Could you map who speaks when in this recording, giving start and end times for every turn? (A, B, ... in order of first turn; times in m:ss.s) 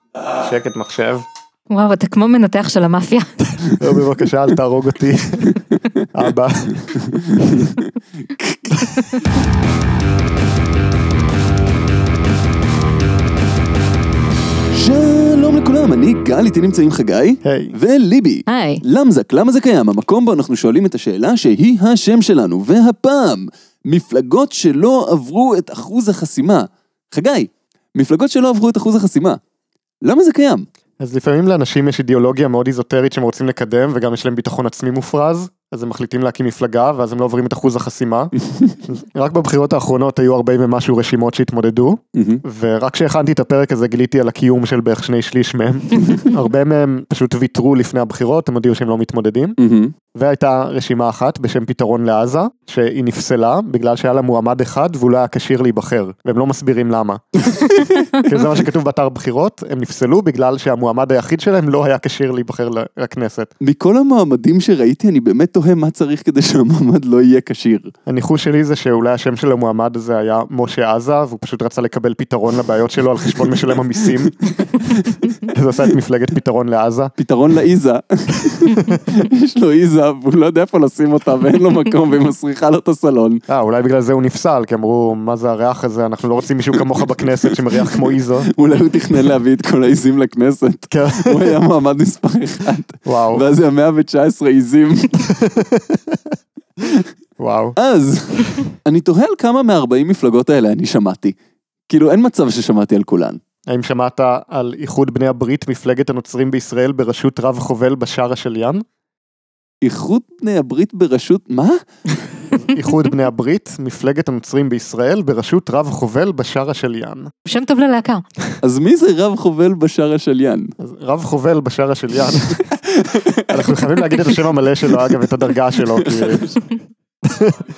0:00.4-0:01.2 A
0:01.7-0:03.3 B
0:03.8-0:05.6 A
0:06.1-0:07.0 A
0:07.0-0:08.9 C
0:14.7-0:29.4 C
0:17.4-0:17.8 A
0:18.5-0:18.8 B
0:30.0-0:30.7 C
0:31.0-0:38.3 A
0:38.9-0:49.6 A
0:42.1-0:42.4 C
0:49.6-0:49.9 C
0:50.2-0:57.2 A
0:58.1-1:03.5 A
1:03.6-1:07.9 C
1:08.1-1:14.3 A
1:13.4-1:15.5 C
1:15.5-1:17.1 A
1:17.2-1:23.4 C
1:23.5-1:28.5 A
1:27.0-1:35.3 C
1:30.9-1:31.5 A
1:33.0-1:33.4 A
1:35.3-1:36.2 A
1:37.4-1:37.8 A
1:37.8-1:41.4 C
1:41.9-1:43.4 C
1:43.7-1:48.8 A
1:49.8-1:51.8 C
1:52.6-1:57.3 A
1:57.4-1:58.2 B
1:58.6-2:00.7 C
2:00.8-2:02.6 A
2:02.5-2:03.5 C
2:03.5-2:06.5 A
2:06.0-2:06.4 C
2:07.2-2:07.6 A